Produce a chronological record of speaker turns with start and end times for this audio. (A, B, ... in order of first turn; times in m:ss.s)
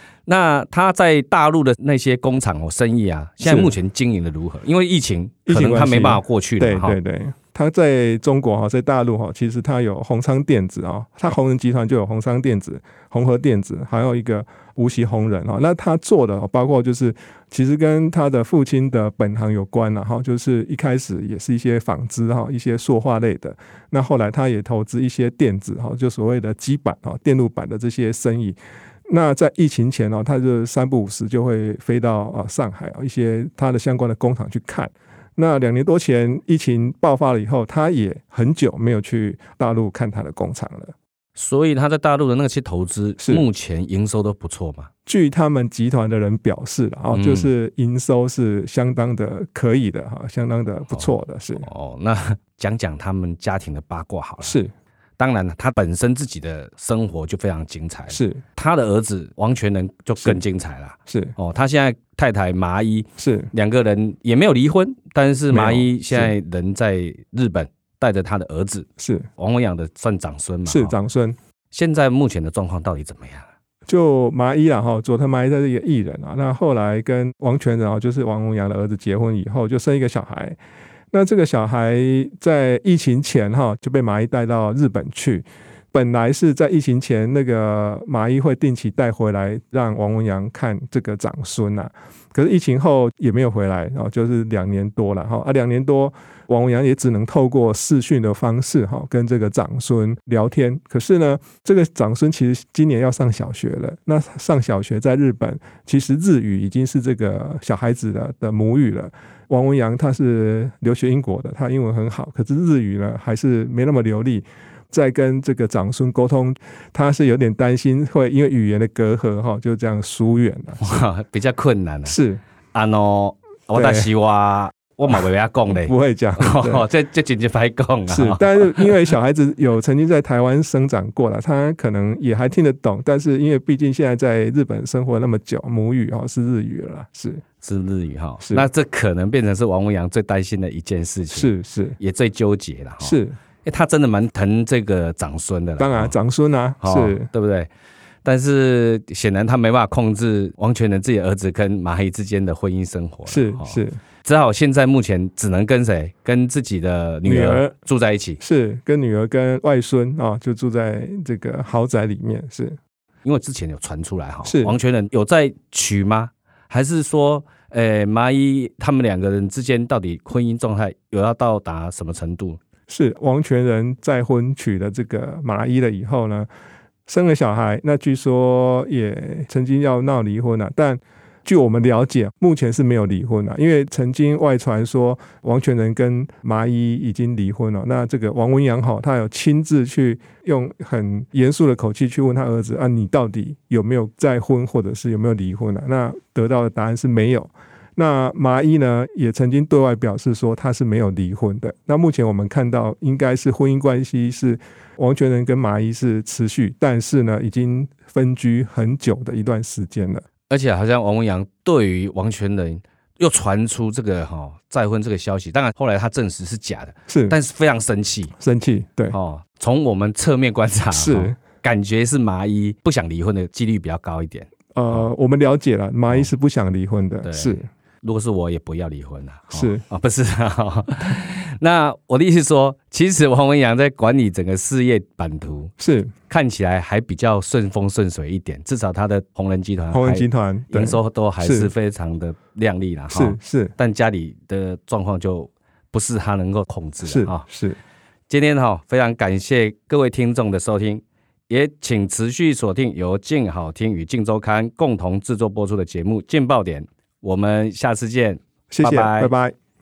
0:00.2-0:07.0 A
0:03.4-0:03.8 B
0:05.5-0:28.6 B
0:29.1-0:40.9 B
0:41.4-0:44.9 A
0:45.0-0:51.7 B
0:47.1-0:47.5 A
0:51.6-0:54.6 A
0:54.4-0:54.7 B
0:55.2-1:11.0 A
0:58.1-0:58.4 B
1:01.1-1:01.3 B
1:03.2-1:03.5 B
1:05.5-1:06.3 B
1:09.0-1:09.3 B
1:10.6-1:11.4 B
1:11.7-1:13.5 A
1:13.9-1:20.6 B
1:21.1-2:01.0 B
2:00.8-2:02.2 A
2:02.0-2:02.4 B
2:02.7-2:09.0 A
2:03.7-2:04.1 B
2:05.7-2:06.8 B
2:08.1-2:17.4 B
2:17.6-2:26.2 A
2:18.4-2:18.7 B
2:21.3-2:22.0 B
2:23.0-2:23.4 B
2:25.8-2:27.3 B
2:26.8-2:27.7 A
2:28.2-2:38.4 A
2:33.2-2:34.0 B
2:37.2-2:37.7 B
2:38.4-2:42.8 B
2:43.2-2:52.6 A
2:44.4-2:44.8 B
2:52.9-2:56.5 B
2:57.1-3:30.2 B
3:30.5-3:38.3 A
3:37.1-3:37.4 B
3:38.4-3:39.2 B
3:39.1-3:45.1 A
3:40.9-3:41.4 B
3:44.7-3:47.7 B
3:47.2-3:55.7 A
3:49.5-3:49.8 B
3:55.8-3:56.1 B
3:56.3-4:07.4 A
3:59.9-4:01.7 B
4:03.1-4:03.7 B
4:07.0-4:07.8 B
4:08.3-4:19.3 A
4:18.7-4:19.5 B